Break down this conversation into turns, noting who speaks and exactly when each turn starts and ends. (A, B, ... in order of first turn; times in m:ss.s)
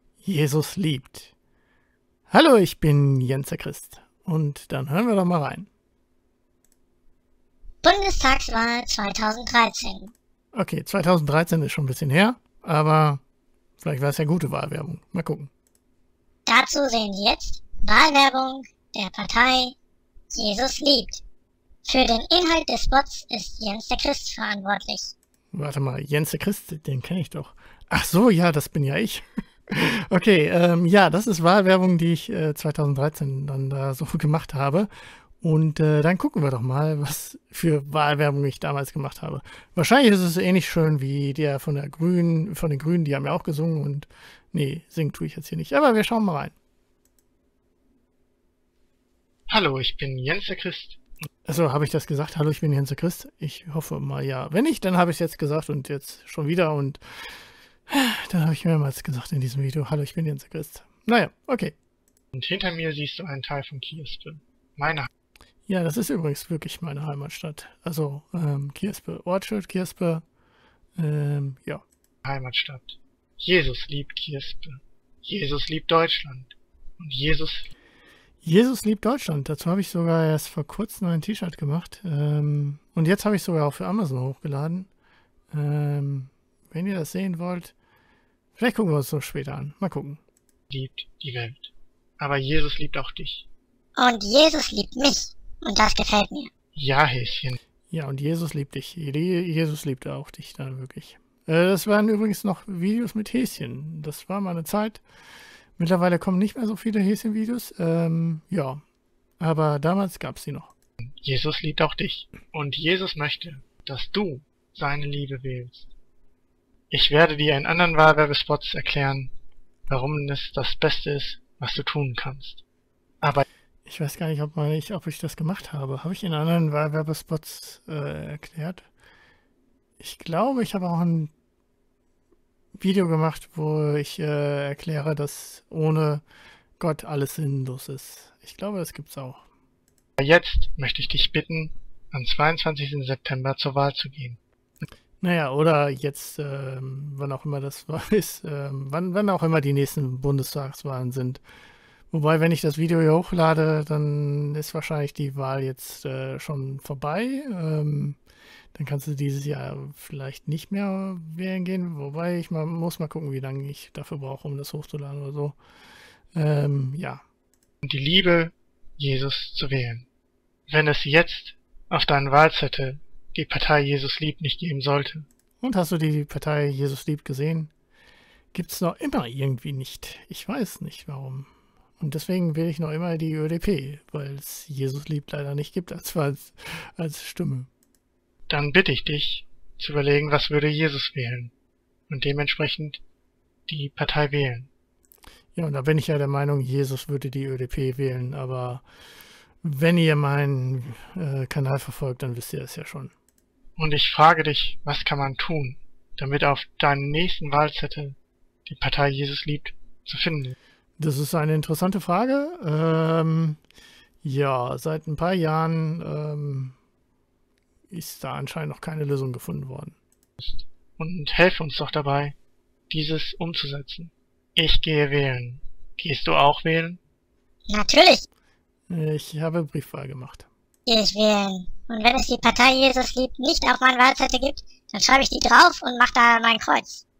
0:00.2-0:01.3 A
0:02.3-0:05.7 A
0:07.8-0:10.1 B
0:10.5-0:13.2 A
0:13.8-0:15.5 A
0:16.4-0:19.7 B
0:20.3-0:21.2 B
0:21.8-0:25.1 B
0:25.5-0:34.9 A
0:35.4-0:46.5 A
0:49.5-0:51.0 C
0:51.4-0:57.0 A
0:57.9-1:01.7 A
1:02.3-1:05.1 C
1:05.7-1:10.2 A
1:11.0-1:11.8 A
1:12.2-1:17.7 C
1:18.4-1:24.9 A
1:25.5-1:27.7 A
1:28.6-1:30.2 A
1:30.7-1:33.5 C
1:34.0-1:36.5 B
1:36.7-1:37.6 C
1:37.9-1:45.0 A
1:45.8-1:48.8 A
1:49.4-1:50.7 A
1:51.2-1:55.9 C
1:56.9-1:59.3 C
1:59.9-2:02.6 C
2:03.8-2:08.8 A
2:10.0-2:11.3 A
2:12.8-2:16.2 A
2:16.8-2:19.4 A
2:20.2-2:24.4 C
2:25.2-2:31.4 A
2:32.1-2:38.2 A
2:38.7-2:45.6 A
2:46.3-2:47.2 A
2:47.8-2:50.1 C
2:50.7-2:55.3 C
2:55.6-2:57.7 A
2:58.5-3:07.7 A
3:08.5-3:11.5 C
3:12.1-3:13.0 C
3:13.7-3:14.7 C
3:15.5-3:18.8 A
3:19.6-3:23.1 A
3:23.8-3:30.6 C
3:31.0-3:33.6 A
3:34.2-3:36.8 A
3:37.9-3:40.0 A
3:40.4-3:42.4 C
3:42.9-3:47.0 C
3:47.7-3:48.3 B
3:48.9-3:50.5 A
3:50.8-3:57.0 B